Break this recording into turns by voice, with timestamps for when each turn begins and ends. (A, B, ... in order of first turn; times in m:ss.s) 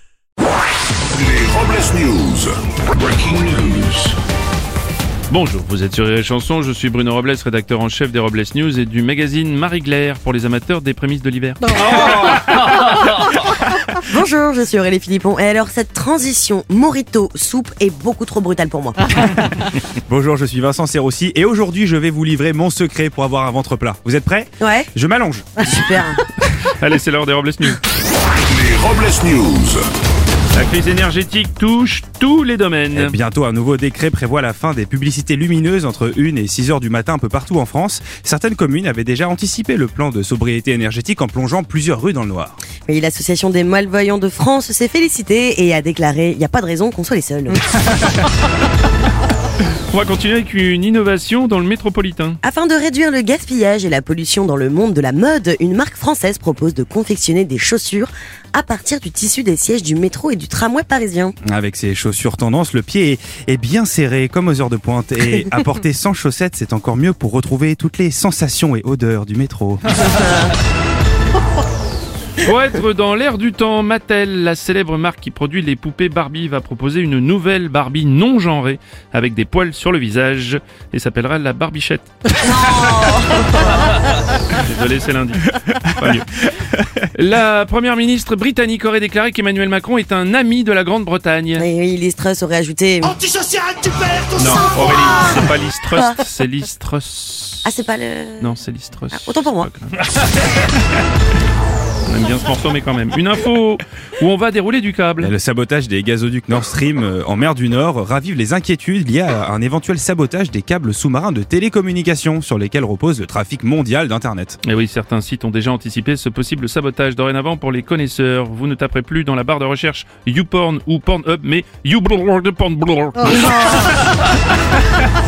0:01.1-0:04.2 A
0:05.3-0:13.4 B
0:14.0-0:19.3 C
0:19.3-0:25.8 D
0:24.6-0:24.9 C
0:25.6-0:26.2 C
0:26.6-0:27.8 B
0:28.5-0:29.9 A
0:30.5-0:33.2 B
0:32.9-0:42.6 D
0:42.9-0:47.6 C
0:49.9-0:52.4 B
0:52.4-1:01.4 C
1:01.4-1:10.0 D
1:12.4-1:22.2 B
1:22.4-1:23.7 C
1:24.5-1:26.4 B
1:27.1-1:31.6 B
1:31.6-1:34.2 C
1:34.3-1:37.7 B
1:37.6-1:38.6 C
1:38.4-1:40.1 B
1:39.1-1:39.7 C
1:42.1-1:45.3 B
1:45.2-1:54.6 D
1:54.6-2:04.2 B